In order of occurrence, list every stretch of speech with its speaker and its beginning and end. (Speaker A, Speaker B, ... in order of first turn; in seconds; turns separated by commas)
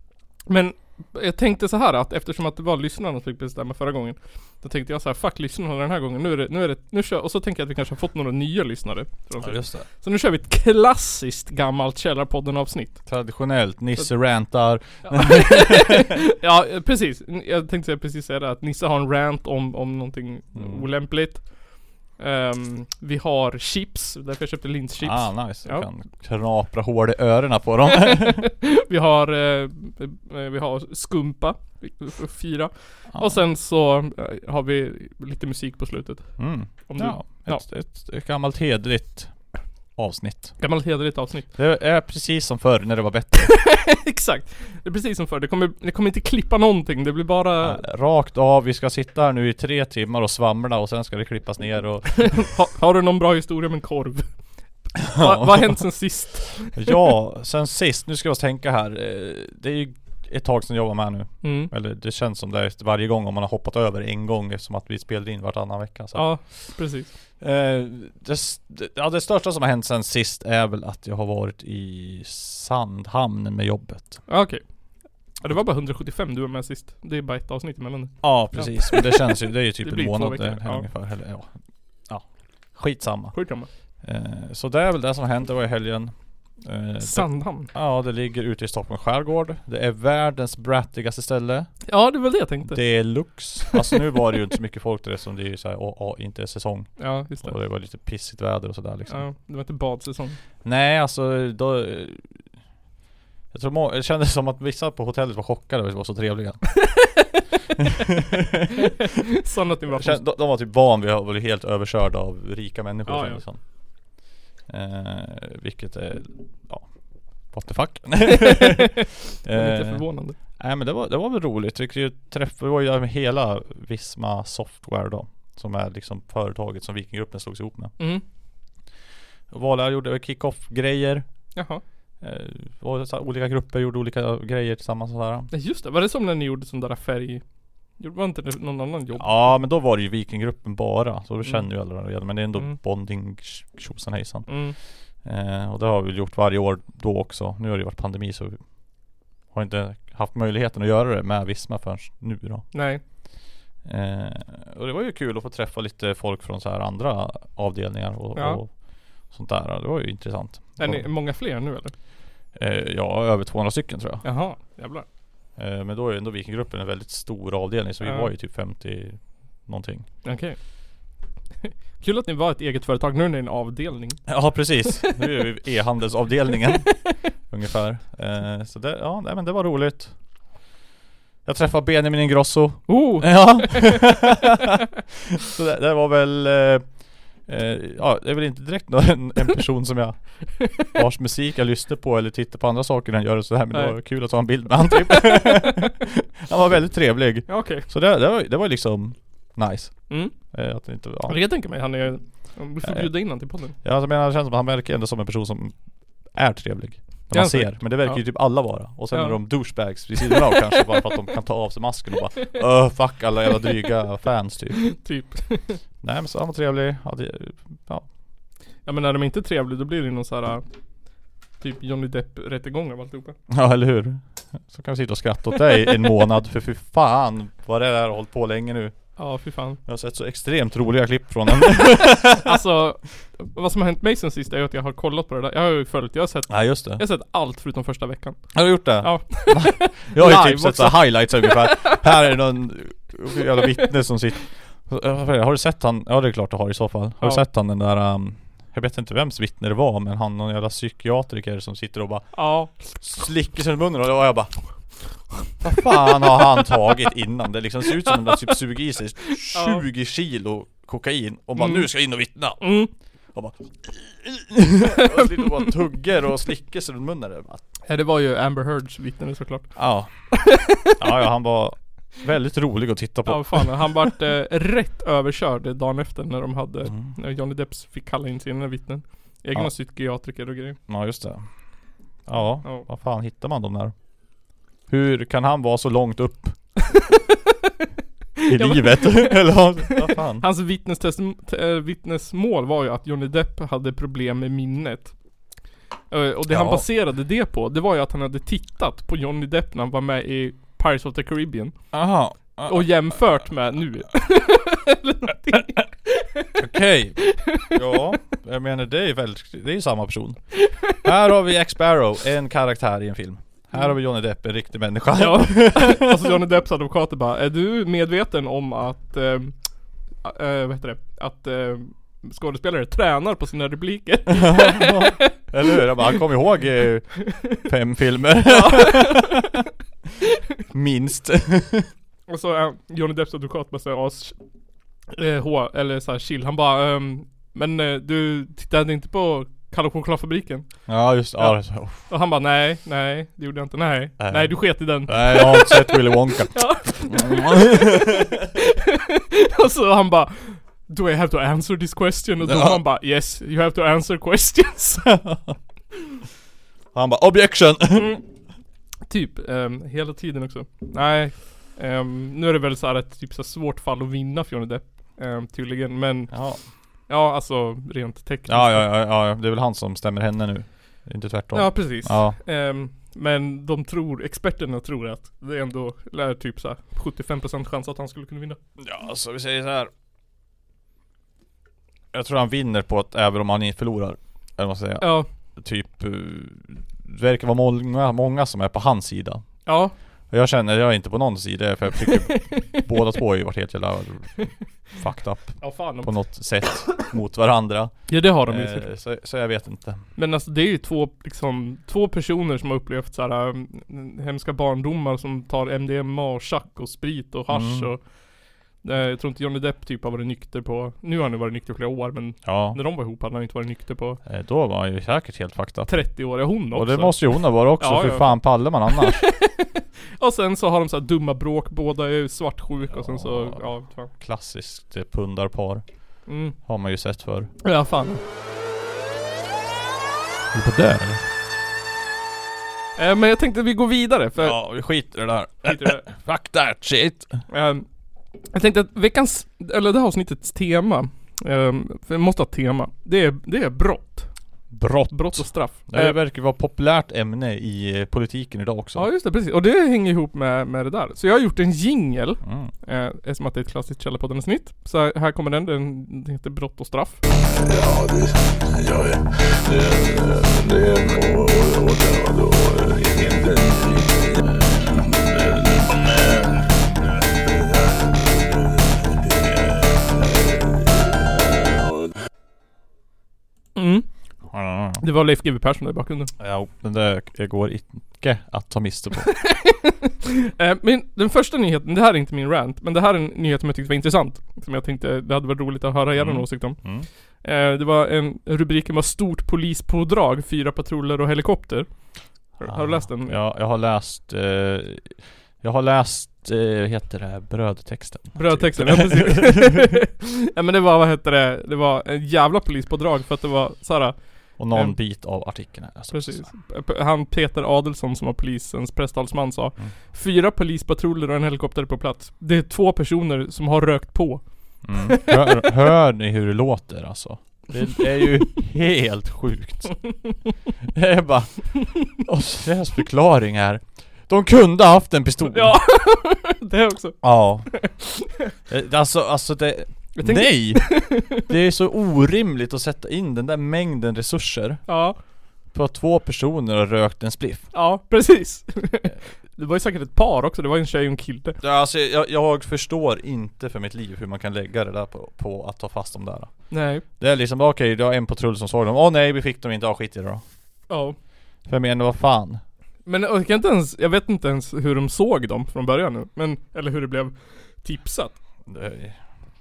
Speaker A: 0.5-13.0, Speaker B: 9.4-9.9, Speaker B: 13.1-16.2, Speaker A: 15.0-21.5, Speaker B: 20.6-20.9, Speaker A: 22.1-25.9, Speaker B: 25.0-28.5, Speaker A: 27.9-37.6, Speaker B: 33.1-33.4, Speaker B: 36.4-39.4, Speaker B: 40.0-40.6, Speaker A: 40.6-41.5, Speaker B: 41.5-43.6, Speaker A: 43.4-47.8, Speaker B: 47.6-52.5, Speaker A: 52.2-54.3, Speaker A: 55.0-57.0, Speaker B: 55.1-55.8, Speaker B: 56.7-66.7, Speaker A: 61.4-61.7, Speaker A: 66.1-67.1, Speaker B: 67.4-74.2, Speaker A: 74.3-74.6, Speaker A: 75.4-80.9, Speaker B: 78.2-83.4, Speaker A: 83.3-83.7, Speaker B: 84.0-91.7, Speaker A: 87.0-87.7, Speaker A: 91.9-94.0, Speaker B: 92.7-99.3, Speaker A: 97.0-97.5, Speaker A: 99.1-100.4, Speaker B: 100.6-102.5, Speaker B: 103.5-107.1, Speaker A: 106.8-107.4, Speaker B: 108.1-109.1, Speaker A: 109.4-110.2, Speaker B: 109.9-113.6, Speaker A: 113.1-113.4, Speaker B: 114.7-116.9, Speaker B: 117.5-128.0, Speaker A: 118.4-118.9, Speaker A: 119.5-120.4, Speaker B: 129.5-131.3, Speaker A: 131.5-131.8, Speaker B: 132.2-135.5, Speaker A: 135.5-137.4, Speaker A: 138.0-139.5, Speaker B: 139.2-144.7, Speaker A: 144.5-144.8, Speaker B: 145.2-148.6, Speaker B: 149.5-152.7, Speaker A: 152.7-153.0, Speaker B: 153.8-161.1, Speaker A: 158.3-158.6, Speaker A: 160.8-161.9, Speaker B: 162.6-164.2, Speaker A: 164.2-165.1, Speaker B: 165.6-170.1, Speaker A: 168.0-168.3, Speaker A: 170.2-170.6, Speaker A: 171.6-174.3, Speaker B: 174.3-180.1, Speaker A: 176.9-177.1, Speaker B: 181.4-184.8, Speaker A: 182.9-184.2, Speaker B: 185.3-186.8, Speaker B: 187.4-201.5, Speaker A: 193.7-194.0, Speaker A: 194.9-195.7, Speaker A: 197.5-197.9, Speaker A: 200.1-200.3, Speaker A: 201.3-203.8, Speaker B: 202.8-203.1, Speaker B: 203.8-205.8, Speaker B: 206.3-214.9, Speaker A: 207.3-208.3, Speaker A: 209.1-209.4, Speaker A: 210.3-211.0, Speaker A: 214.8-215.8, Speaker B: 216.0-218.1, Speaker A: 218.9-220.6, Speaker A: 221.6-223.4, Speaker B: 223.5-229.1, Speaker A: 229.2-229.8, Speaker B: 229.9-232.6, Speaker A: 232.4-238.4, Speaker B: 236.5-237.0, Speaker B: 238.5-254.5, Speaker A: 239.0-242.0, Speaker A: 252.3-252.7, Speaker B: 255.6-262.8, Speaker A: 258.1-258.5, Speaker A: 259.4-259.9, Speaker A: 261.6-261.9, Speaker A: 262.6-262.9, Speaker B: 263.3-267.6, Speaker A: 267.9-270.9, Speaker B: 269.8-270.4, Speaker B: 271.0-274.1, Speaker A: 273.3-280.8, Speaker B: 276.9-277.1, Speaker B: 280.9-281.5, Speaker B: 282.3-283.9, Speaker B: 284.9-286.6, Speaker A: 286.9-287.5, Speaker A: 288.4-295.2, Speaker B: 288.5-290.5, Speaker A: 296.1-301.8, Speaker B: 296.5-296.9, Speaker B: 301.9-303.4, Speaker A: 302.7-306.6, Speaker B: 306.6-316.4, Speaker A: 307.3-307.8, Speaker A: 315.2-319.6, Speaker A: 320.2-325.4, Speaker B: 324.3-329.4, Speaker A: 328.4-329.5, Speaker B: 330.7-331.9, Speaker A: 332.3-334.4, Speaker A: 335.1-355.1, Speaker B: 340.9-342.1, Speaker B: 344.2-348.3, Speaker B: 352.4-352.8, Speaker B: 355.1-355.6, Speaker B: 356.9-358.2, Speaker A: 357.9-358.2, Speaker A: 359.1-366.3, Speaker B: 366.3-366.6, Speaker A: 367.1-368.9, Speaker B: 368.5-372.4, Speaker A: 371.5-378.6, Speaker B: 378.8-379.9, Speaker B: 382.1-389.6, Speaker A: 385.0-385.3, Speaker A: 389.7-389.9, Speaker B: 390.3-400.0, Speaker A: 392.0-392.8, Speaker A: 395.6-396.1, Speaker A: 398.1-398.9, Speaker A: 400.2-408.1, Speaker B: 407.5-407.9, Speaker A: 408.8-414.2, Speaker B: 412.4-412.8, Speaker B: 414.2-419.2, Speaker A: 415.9-424.1, Speaker B: 422.9-425.8, Speaker A: 426.3-426.6, Speaker B: 426.6-427.5, Speaker A: 427.6-428.2, Speaker B: 430.5-431.2, Speaker A: 433.0-434.6, Speaker B: 434.4-437.4, Speaker A: 435.6-436.1, Speaker A: 437.5-437.9, Speaker A: 438.5-444.3, Speaker B: 444.7-449.1, Speaker A: 445.1-446.2, Speaker A: 449.0-457.2, Speaker B: 452.4-452.7, Speaker C: 457.5-471.9, Speaker A: 473.8-474.1, Speaker B: 474.5-475.0, Speaker A: 475.0-476.3, Speaker B: 476.4-479.4, Speaker A: 479.3-493.4, Speaker B: 486.2-487.1, Speaker B: 492.6-499.9, Speaker A: 498.4-505.0, Speaker B: 504.6-506.5, Speaker A: 506.1-515.6, Speaker B: 514.8-520.2, Speaker B: 520.9-525.8, Speaker A: 525.5-528.3, Speaker B: 527.2-527.9, Speaker B: 528.7-534.9, Speaker A: 530.1-531.5, Speaker A: 534.9-535.2, Speaker B: 535.7-537.7, Speaker A: 537.7-541.6, Speaker B: 541.6-550.4, Speaker A: 546.7-547.0, Speaker A: 550.9-551.2, Speaker B: 551.7-552.6, Speaker A: 553.1-558.4, Speaker B: 558.7-559.2